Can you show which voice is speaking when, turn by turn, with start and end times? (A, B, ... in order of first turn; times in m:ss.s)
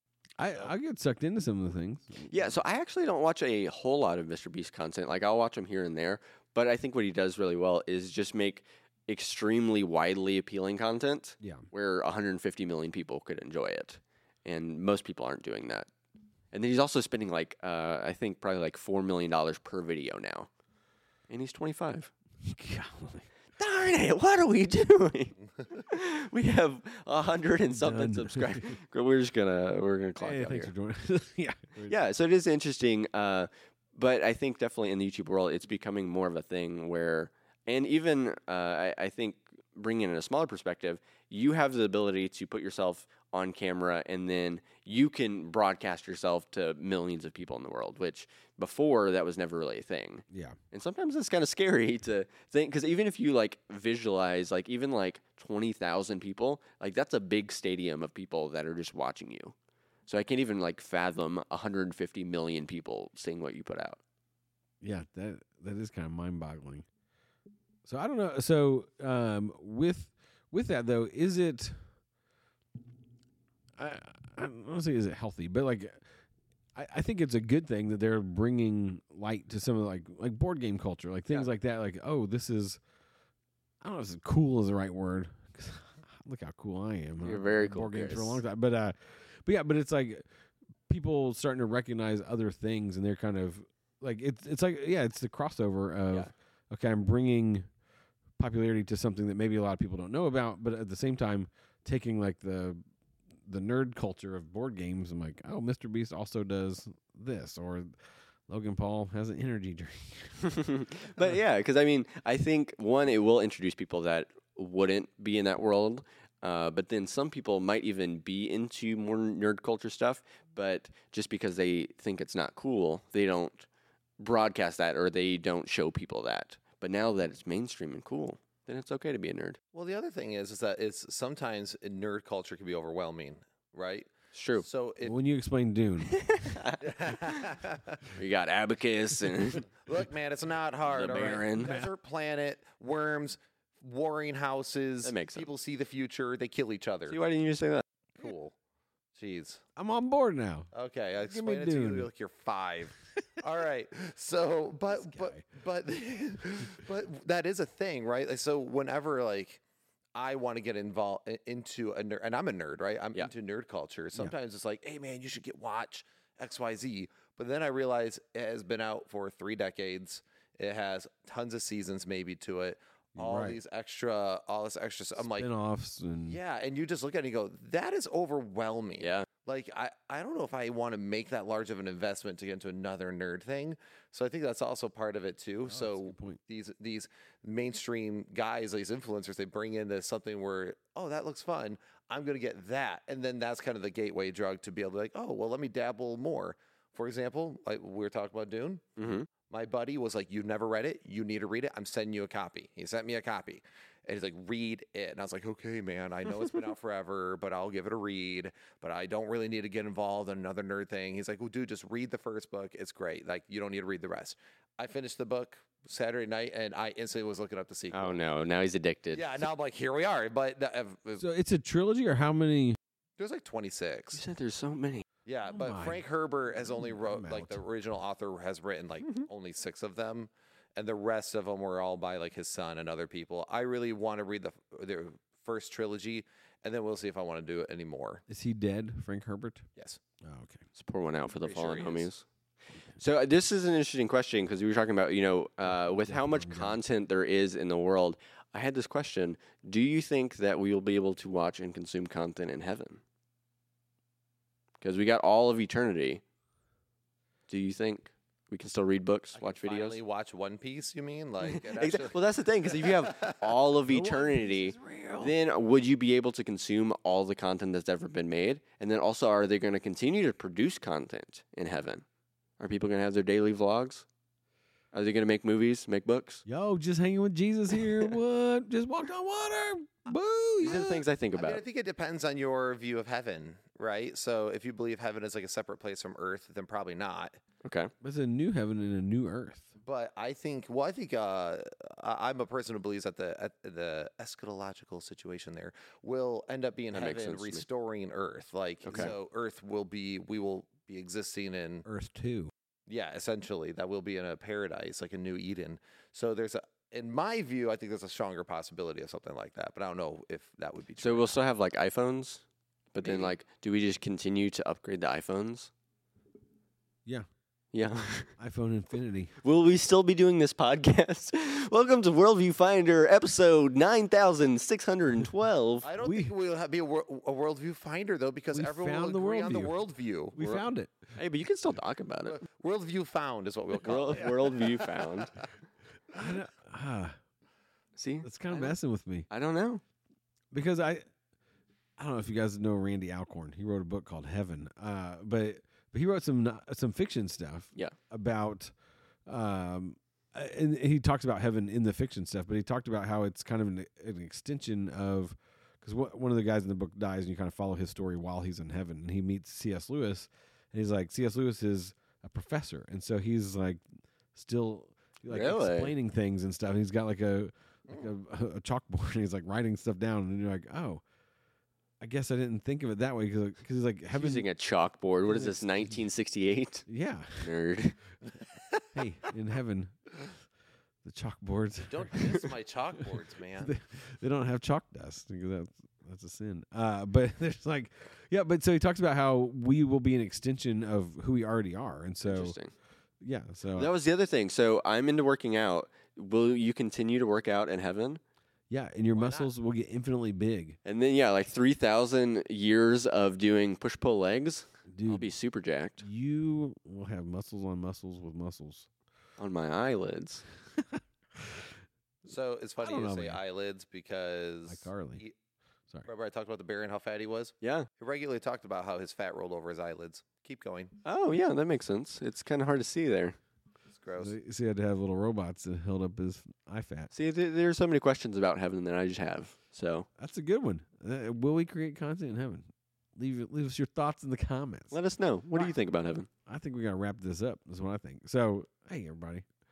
0:00.4-0:02.6 A
0:02.3-0:15.9 B
0:11.4-0:11.7 A
0:16.5-0:20.5 B
0:21.3-0:22.1 B
0:22.4-0:23.3 A
0:23.6-0:30.7 B
0:27.7-0:28.8 A
0:30.2-0:32.0 A
0:31.9-0:59.5 B
0:50.3-0:50.6 A
1:00.1-1:04.0 B
1:04.8-1:06.9 A
1:07.8-1:11.8 A
1:13.8-1:16.0 A
1:16.7-1:22.8 A
1:23.8-1:30.2 A
1:27.2-1:28.4 B
1:30.9-1:37.6 A
1:38.4-1:42.8 A
1:43.4-1:47.9 A
1:48.5-1:50.6 A
1:50.4-2:03.6 B
2:04.2-2:09.6 B
2:09.7-2:15.2 C
2:14.3-2:14.6 B
2:15.0-2:16.2 A
2:16.1-2:17.4 B
2:16.8-2:18.1 C
2:18.1-2:19.7 B
2:19.8-2:27.2 C
2:20.9-2:21.7 B
2:21.6-2:21.9 A
2:25.0-2:25.5 B
2:27.1-2:27.8 B
2:28.2-2:28.6 C
2:29.1-2:29.6 C
2:29.8-2:30.7 A
2:30.7-2:39.6 C
2:31.2-2:32.1 A
2:35.0-2:35.4 A
2:40.2-2:55.5 C
2:53.2-2:53.6 A
2:55.2-2:56.4 A
2:56.2-3:18.8 C
3:05.7-3:06.4 A
3:19.0-3:19.3 B
3:19.4-3:38.2 C
3:37.9-3:39.4 B
3:39.1-3:41.2 C
3:41.2-3:42.8 A
3:43.2-3:44.2 C
3:44.1-3:45.0 B
3:45.2-3:58.2 C
3:45.5-3:46.0 A
3:46.7-3:47.6 A
3:58.3-3:59.7 A
4:00.2-4:00.6 A
4:00.8-4:02.2 B
4:01.4-4:02.1 C
4:03.0-4:13.0 B
4:05.6-4:06.8 A
4:14.8-4:16.2 B
4:17.5-4:20.0 B
4:19.3-4:22.2 C
4:21.4-4:32.0 B
4:22.8-4:23.3 C
4:23.9-4:25.3 A
4:32.6-4:34.0 B
4:34.9-4:36.4 B
4:36.4-4:41.0 A
4:40.6-4:41.6 B
4:40.6-4:47.4 C
4:47.6-4:47.9 B
4:48.0-4:49.7 A
4:49.8-5:01.8 C
4:56.9-4:57.6 B
4:58.8-4:59.1 B
5:01.8-5:02.5 A
5:02.9-5:11.4 C
5:11.0-5:12.4 B
5:12.9-5:15.7 B
5:13.0-5:13.3 C
5:17.7-5:18.3 B
5:18.4-5:19.3 A
5:19.4-5:25.9 B
5:25.8-5:30.4 C
5:26.0-5:26.3 A
5:28.5-5:29.8 A
5:30.3-5:31.1 A
5:30.4-5:32.4 B
5:32.2-5:35.0 C
5:33.8-5:35.3 B
5:36.1-5:37.1 A
5:38.0-5:38.8 B
5:38.2-5:39.3 A
5:39.3-5:39.8 B
5:40.5-5:41.0 A
5:42.0-5:48.7 A
5:49.2-6:11.0 A
6:05.3-6:05.9 B
6:12.0-6:14.4 A
6:14.1-6:16.9 B
6:15.3-6:15.6 A
6:16.9-6:17.5 A
6:17.4-6:18.0 B
6:18.9-6:20.3 A
6:21.0-6:22.5 A
6:21.9-6:23.7 C
6:23.6-6:32.6 A
6:32.2-6:32.7 B
6:33.2-6:33.9 A
6:33.8-6:38.2 B
6:38.7-6:40.8 A
6:39.2-6:39.4 B
6:40.8-6:46.0 B
6:44.9-6:45.3 A
6:46.0-6:48.9 A
6:49.4-6:50.4 B
6:50.9-6:51.6 A
6:52.2-6:55.3 C
6:52.8-6:53.4 A
6:54.7-6:55.2 A
6:56.0-7:00.9 C
6:57.6-6:57.9 B
7:01.0-7:03.4 B
7:03.9-7:04.3 C
7:04.2-7:07.1 A
7:07.1-7:10.1 B
7:10.2-7:15.0 A
7:14.9-7:16.3 B
7:16.4-7:19.4 A